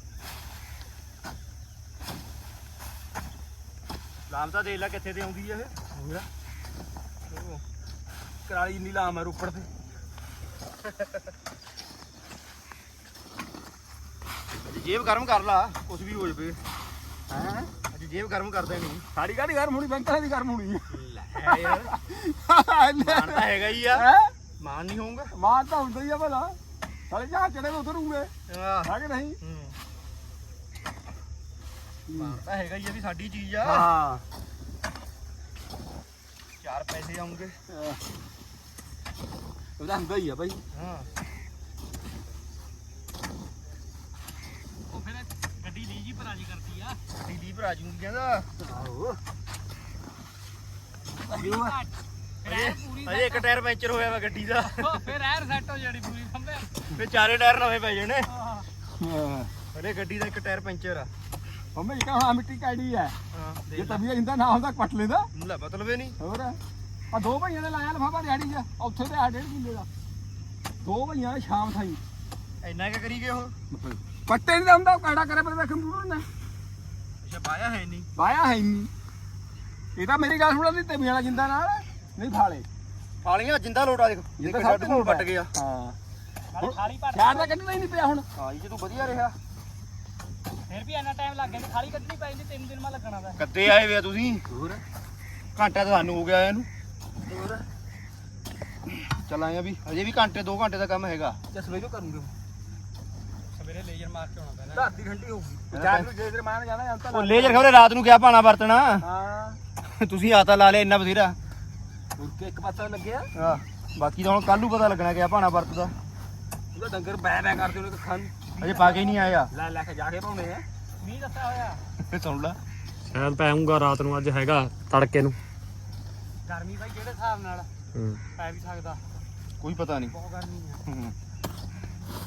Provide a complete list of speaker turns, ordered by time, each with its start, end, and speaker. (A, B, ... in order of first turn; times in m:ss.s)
0:04.3-0:05.7 A
0:08.4-0:09.7 B
0:14.6-0:16.6 A
0:17.3-0:19.0 A
0:19.1-0:24.3 B
0:20.9-0:21.9 A
0:23.0-0:24.1 A
0:24.6-0:25.3 A
0:25.3-0:26.6 B
0:27.1-0:28.3 B
0:28.5-0:29.7 A
0:28.8-0:29.4 B
0:32.1-0:33.9 A
0:33.6-0:34.2 B
0:36.6-0:37.6 A
0:37.7-0:38.0 B
0:39.8-0:40.6 B
0:40.7-0:41.1 A
0:44.9-0:47.0 C
0:47.2-0:48.5 A
0:48.6-0:49.2 B
0:51.3-0:51.8 B
0:51.3-0:51.9 C
0:52.4-0:53.5 C
0:52.4-0:55.1 A
0:54.6-0:56.8 C
0:56.9-0:58.3 A
0:58.4-0:58.6 C
0:59.0-0:59.5 B
0:59.7-1:01.1 A
1:01.7-1:03.1 B
1:03.3-1:04.0 A
1:03.7-1:05.3 B
1:05.3-1:06.2 A
1:06.2-1:06.6 B
1:07.1-1:09.9 B
1:10.8-1:12.0 B
1:12.6-1:13.5 A
1:13.7-1:16.2 B
1:17.2-1:18.1 A
1:18.2-1:18.9 B
1:20.0-1:22.6 B
1:23.2-1:25.5 A
1:24.4-1:26.0 B
1:26.5-1:27.5 C
1:26.6-1:28.2 B
1:28.4-1:29.4 A
1:30.7-1:33.4 C
1:33.4-1:34.4 A
1:35.6-1:36.7 A
1:37.3-1:37.6 B
1:39.1-1:41.4 A
1:41.5-1:42.3 B
1:43.5-1:44.9 C
1:44.7-1:47.7 B
1:45.7-1:46.1 A
1:47.1-1:49.0 A
1:49.0-1:49.6 B
1:49.8-1:51.4 A
1:52.2-1:53.3 B
1:53.3-1:55.9 A
1:56.7-1:58.5 B
1:58.6-1:59.2 C
1:58.6-1:59.5 A
1:59.5-2:00.6 B
2:01.0-2:01.8 C
2:02.0-2:02.6 A
2:03.1-2:05.4 D
2:06.4-2:07.7 C
2:08.3-2:09.2 C
2:09.6-2:10.2 A
2:10.1-2:10.8 C
2:10.9-2:11.1 A